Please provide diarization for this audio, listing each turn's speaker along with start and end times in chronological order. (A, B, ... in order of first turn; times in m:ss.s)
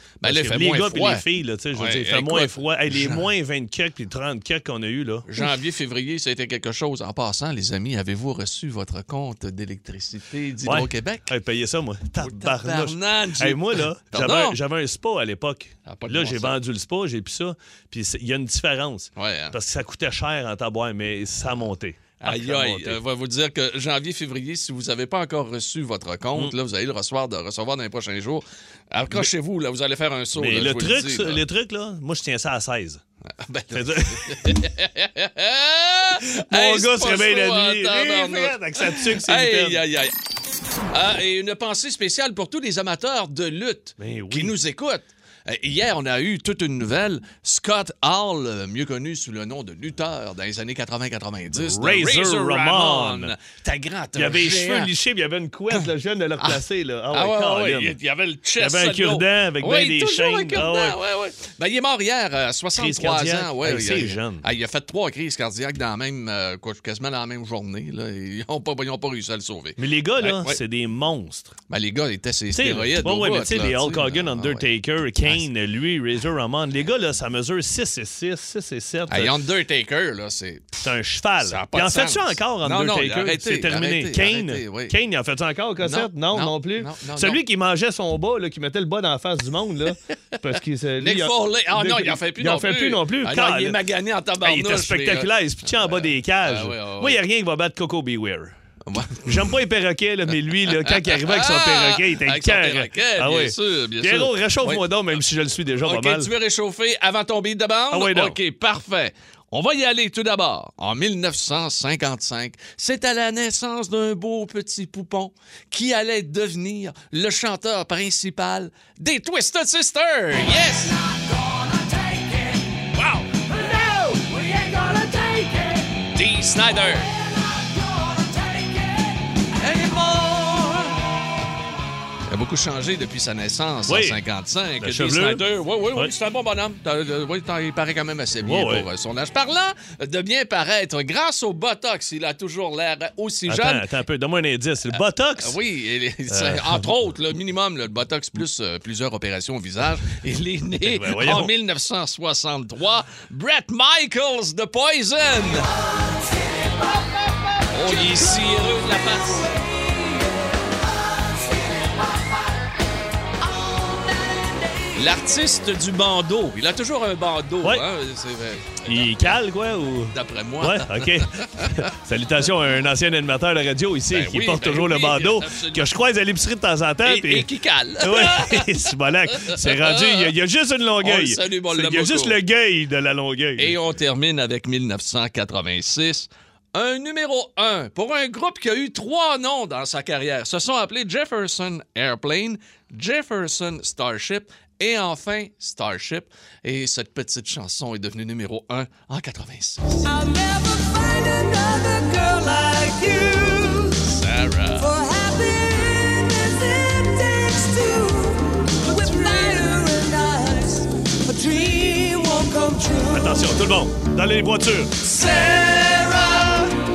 0:00.2-0:03.3 A
0:00.2-0:05.3 B
0:05.3-0:11.3 A
0:10.6-0:23.0 B
0:12.2-0:14.6 A
0:15.8-0:16.6 A
0:19.2-0:19.5 A
0:22.2-0:31.4 A
0:30.3-0:33.0 B
0:33.2-0:40.2 A
0:33.7-0:34.6 B
0:36.4-0:39.8 B
0:40.9-0:54.9 A
0:44.0-0:44.6 B
0:51.5-0:53.3 B
0:54.2-0:57.9 B
0:56.4-1:10.6 A
0:58.6-1:01.0 B
1:02.7-1:04.4 B
1:09.8-1:11.5 B
1:11.7-1:14.7 A
1:12.5-1:19.4 B
1:19.1-1:20.8 A
1:20.8-1:33.8 B
1:21.4-1:24.9 A
1:25.8-1:27.4 A
1:31.0-1:37.2 A
1:34.4-1:38.6 B
1:38.8-1:39.5 A
1:39.2-1:46.3 B
1:40.8-1:44.8 A
1:45.8-2:01.0 A
1:47.9-1:48.4 B
2:01.0-2:02.8 C
2:02.9-2:03.4 A
2:03.3-2:05.9 C
2:06.1-2:07.1 A
2:07.9-2:09.1 C
2:09.6-2:11.0 A
2:12.3-2:23.8 A
2:13.9-2:14.2 B
2:14.8-2:16.1 B
2:18.4-2:18.9 B
2:23.5-2:25.6 B
2:25.4-2:35.7 A
2:26.3-2:26.9 B
2:30.8-2:31.5 B
2:37.7-2:39.6 A
2:37.9-2:38.3 C
2:45.0-2:48.8 A
2:48.8-2:57.5 B
2:50.1-2:51.8 A
2:54.1-2:55.9 A
2:57.0-3:00.3 A
2:58.0-3:03.8 B
3:01.0-3:02.4 A
3:03.6-3:20.1 A
3:20.0-3:24.1 C
3:24.1-3:24.9 A
3:24.8-3:33.4 C
3:33.1-3:35.0 B
3:35.1-3:36.7 C
3:35.2-3:36.5 A